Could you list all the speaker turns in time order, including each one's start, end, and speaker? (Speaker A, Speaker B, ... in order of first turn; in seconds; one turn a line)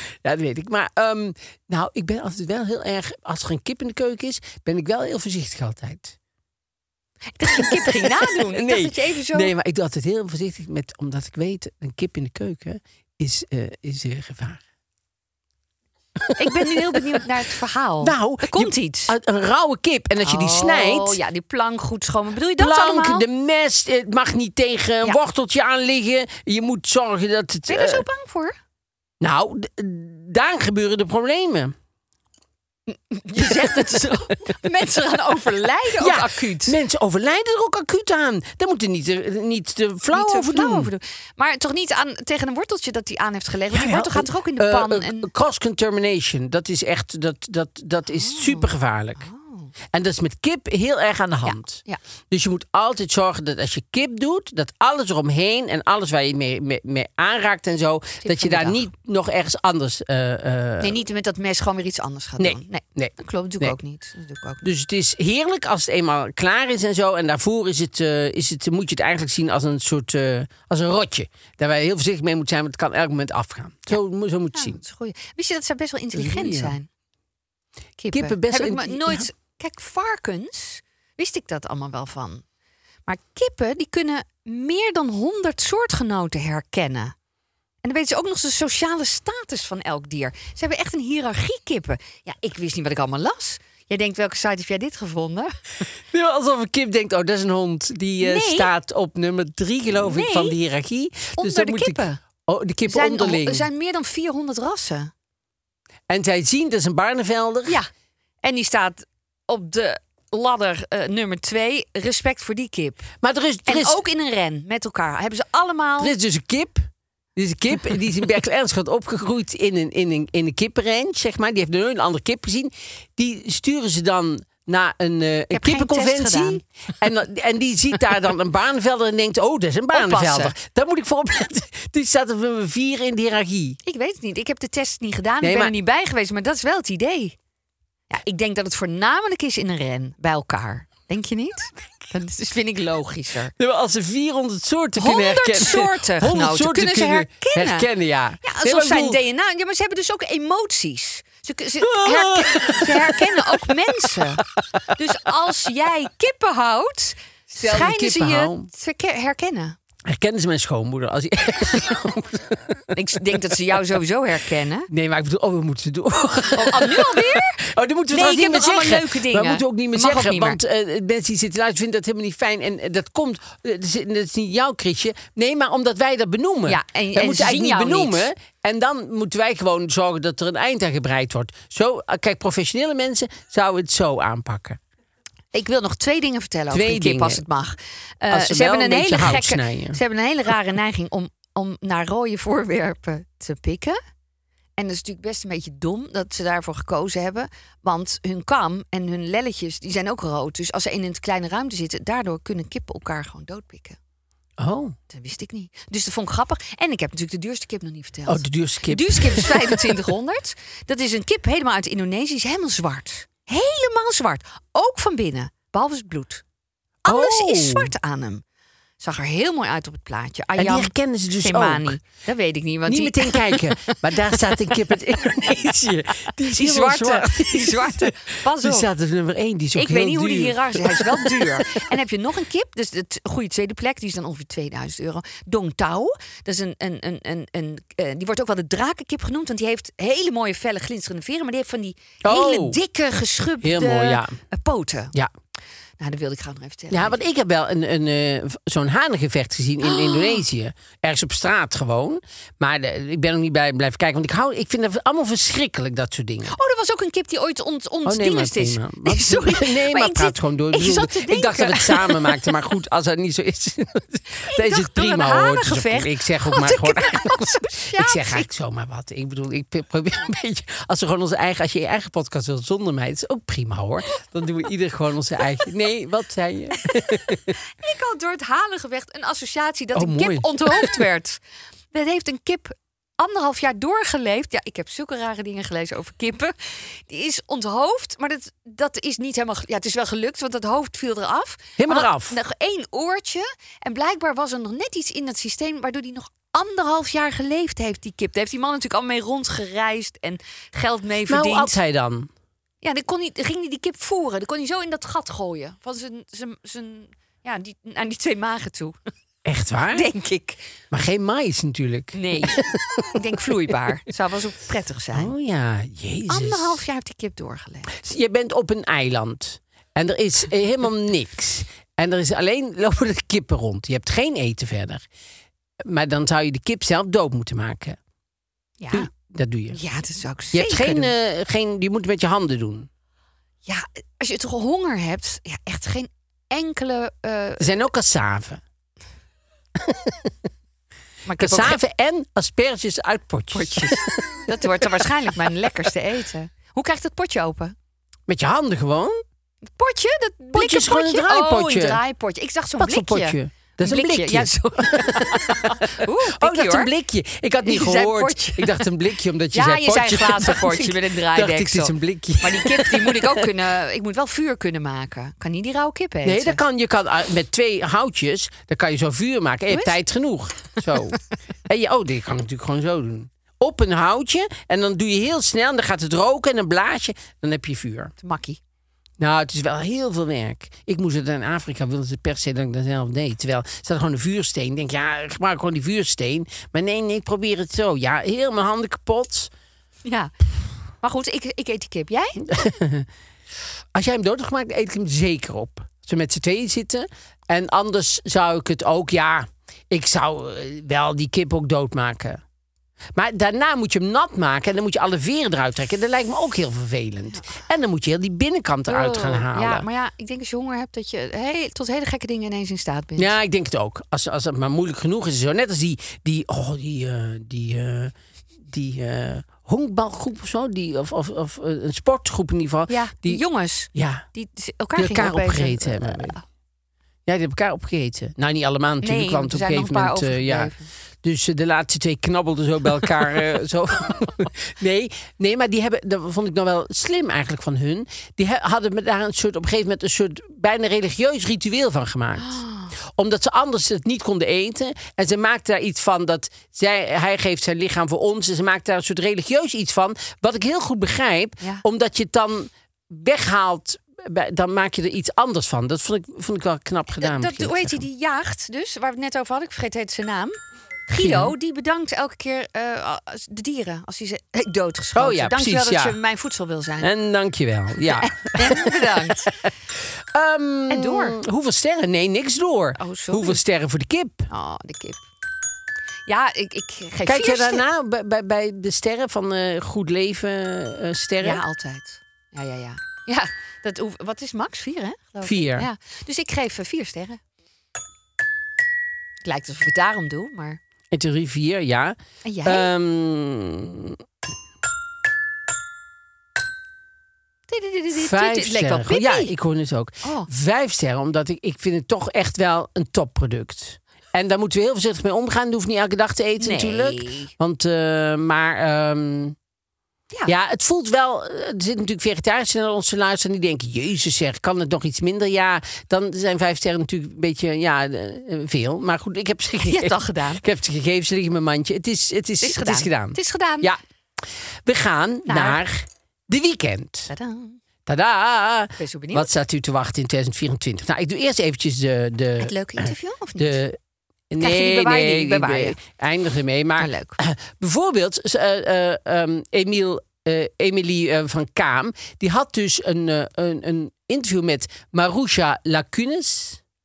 Speaker A: 0.1-6.2
Speaker B: 7.3-9.5
Speaker A: 7.5-14.6
Speaker A: 16.3-17.2
Speaker B: 16.4-19.1
Speaker A: 18.0-21.2
Speaker B: 20.2-23.2
Speaker A: 22.6-28.1
Speaker B: 27.7-28.6
Speaker A: 29.2-31.7
Speaker B: 32.9-36.8
Speaker A: 33.4-34.2
Speaker A: 36.0-40.9
Speaker B: 40.1-45.3
Speaker A: 43.7-49.3
Speaker B: 48.1-49.7
Speaker A: 49.9-61.0
Speaker B: 51.4-52.0
Speaker B: 58.2-58.8
Speaker B: 60.8-64.7
Speaker A: 62.4-63.7
Speaker A: 64.6-74.8
Speaker B: 74.5-76.9
Speaker A: 76.1-76.8
Speaker B: 78.0-82.4
Speaker A: 78.1-79.3
Speaker B: 83.1-87.1
Speaker B: 87.8-95.5
Speaker A: 96.1-103.7
Speaker B: 98.2-98.7
Speaker B: 100.0-100.5
Speaker B: 101.3-102.2
Speaker B: 102.8-105.1
Speaker A: 106.1-107.8
Speaker B: 108.4-113.1
Speaker A: 113.2-114.0
Speaker B: 113.7-116.1
Speaker A: 116.0-133.8
Speaker B: 125.5-126.6
Speaker B: 129.9-130.6
Speaker B: 133.8-137.3
Speaker A: 135.4-135.7
Speaker B: 138.1-143.5
Speaker A: 143.6-149.2
Speaker B: 145.0-147.9
Speaker B: 148.4-159.8
Speaker A: 151.8-154.2
Speaker A: 157.5-158.7
Speaker A: 160.1-162.8
Speaker B: 162.9-164.9
Speaker A: 164.9-184.8
Speaker B: 166.5-170.6
Speaker B: 176.7-178.3
Speaker B: 185.5-194.0
Speaker A: 186.7-187.4
Speaker A: 188.3-190.0
Speaker B: 194.8-204.0
Speaker A: 204.6-205.0
Speaker B: 205.1-216.4
Speaker A: 208.2-210.0
Speaker B: 217.0-218.4
Speaker A: 217.1-217.9
Speaker B: 219.0-224.0
Speaker A: 220.6-222.0
Speaker A: 222.8-231.8
Speaker B: 226.4-228.9
Speaker B: 229.7-245.1
Speaker A: 242.2-242.8
Speaker A: 243.6-244.4
Speaker B: 246.0-247.2
Speaker A: 246.9-256.6
Speaker B: 249.8-250.4
Speaker B: 256.5-262.4
Speaker A: 258.0-277.5
Speaker B: 264.4-268.5
Speaker B: 277.5-281.4
Speaker A: 279.9-281.0
Speaker B: 281.9-286.5
Speaker B: 287.1-301.8
Speaker A: 291.8-292.3
Speaker A: 301.3-302.3
Speaker B: 302.8-309.0
Speaker A: 309.4-310.1
Speaker B: 309.9-310.6
Speaker A: 310.9-313.2
Speaker B: 312.1-315.3
Speaker A: 315.1-316.8
Speaker B: 316.3-317.9
Speaker A: 317.9-325.0
Speaker A: 325.8-328.0
Speaker B: 328.8-329.1
Speaker A: 328.9-329.8
Speaker B: 329.7-331.1
Speaker A: 330.5-332.9
Speaker B: 333.6-337.7
Speaker A: 337.6-338.6
Speaker A: 339.8-340.3
Speaker B: 341.2-341.8
Speaker A: 341.4-344.9
Speaker B: 343.5-347.7
Speaker A: 348.3-349.2
Speaker B: 349.7-356.9
Speaker A: 350.5-352.0
Speaker A: 352.8-363.5
Speaker B: 357.6-358.9
Speaker B: 359.5-366.6
Speaker A: 366.2-378.1
Speaker B: 369.7-370.0
Speaker B: 378.2-378.6
Speaker A: 379.2-389.5
Speaker B: 390.0-390.3
Speaker B: 391.0-392.6
Speaker A: 392.5-393.1
Speaker A: 393.9-402.4
Speaker A: 403.1-409.9
Speaker B: 408.9-413.3
Speaker A: 413.2-423.4
Speaker B: 422.9-426.4
Speaker A: 423.9-424.2
Speaker A: 424.9-426.3
Speaker A: 427.2-458.0
Speaker B: 429.0-430.9
Speaker B: 442.4-442.9
Speaker B: 457.2-460.6
Speaker B: 461.1-467.1
Speaker A: 461.2-461.5
Speaker A: 465.1-466.2
Speaker A: 467.0-469.3
Speaker B: 468.1-469.6
Speaker A: 469.9-474.5
Speaker B: 470.9-471.4
Speaker B: 473.0-473.6
Speaker B: 474.5-475.2
Speaker B: 476.3-477.8
Speaker A: 477.2-481.6
Speaker B: 481.4-487.4
Speaker A: 485.4-485.9
Speaker B: 489.4-490.8
Speaker A: 491.1-494.2
Speaker B: 492.4-492.9
Speaker B: 497.7-499.5
Speaker A: 498.1-509.6
Speaker B: 500.2-500.5
Speaker B: 506.6-507.5
Speaker A: 510.4-524.0
Speaker B: 519.8-520.6
Speaker B: 522.6-523.9
Speaker A: 524.8-527.3
Speaker B: 525.5-525.8
Speaker B: 527.3-527.8
Speaker A: 528.0-534.0
Speaker B: 529.0-529.5
Speaker B: 532.6-533.8
Speaker A: 534.5-546.8
Speaker B: 534.6-536.0
Speaker B: 537.0-537.4